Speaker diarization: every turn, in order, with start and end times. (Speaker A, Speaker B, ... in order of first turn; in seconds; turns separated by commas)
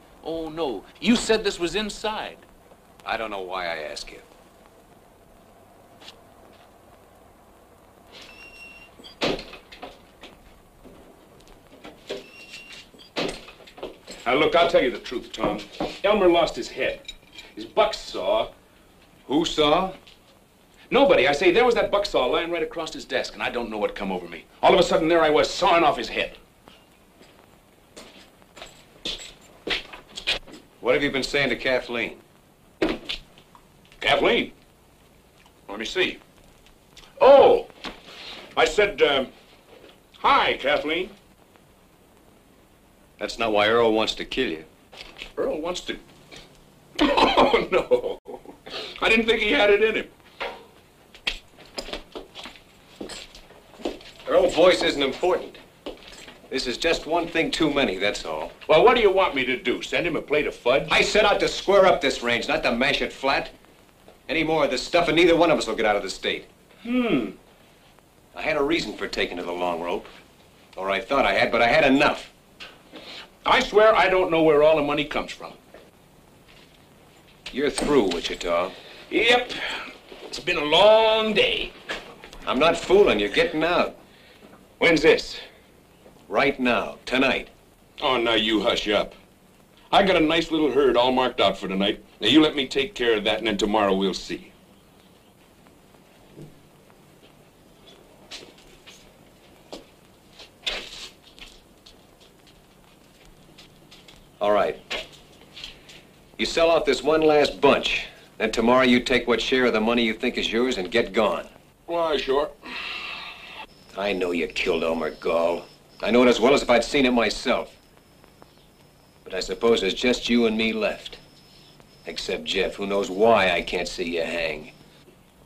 Speaker A: 0.2-2.5, Speaker B: 3.0-4.3, Speaker A: 14.2-17.0, Speaker A: 17.6-18.5, Speaker A: 19.3-19.9, Speaker A: 20.9-26.4, Speaker B: 30.8-32.2, Speaker A: 34.0-34.5, Speaker A: 35.7-36.2, Speaker A: 37.2-37.7, Speaker A: 38.5-39.3, Speaker A: 40.2-41.1, Speaker B: 43.2-44.7, Speaker A: 45.4-46.0, Speaker A: 47.0-50.1, Speaker B: 54.2-55.6, Speaker B: 56.5-58.5, Speaker A: 58.7-60.9, Speaker B: 60.9-63.5, Speaker B: 64.3-66.5, Speaker A: 66.8-67.4, Speaker B: 68.3-70.1, Speaker B: 70.8-72.3, Speaker A: 73.5-75.6, Speaker B: 77.5-78.8, Speaker A: 79.1-81.7, Speaker B: 82.5-84.0, Speaker A: 84.8-85.4, Speaker B: 86.3-87.5, Speaker A: 88.0-89.2, Speaker A: 89.9-94.5, Speaker B: 104.4-104.8, Speaker B: 106.4-111.5, Speaker A: 111.9-112.5, Speaker B: 113.9-117.8, Speaker B: 119.2-121.2, Speaker B: 122.0-124.7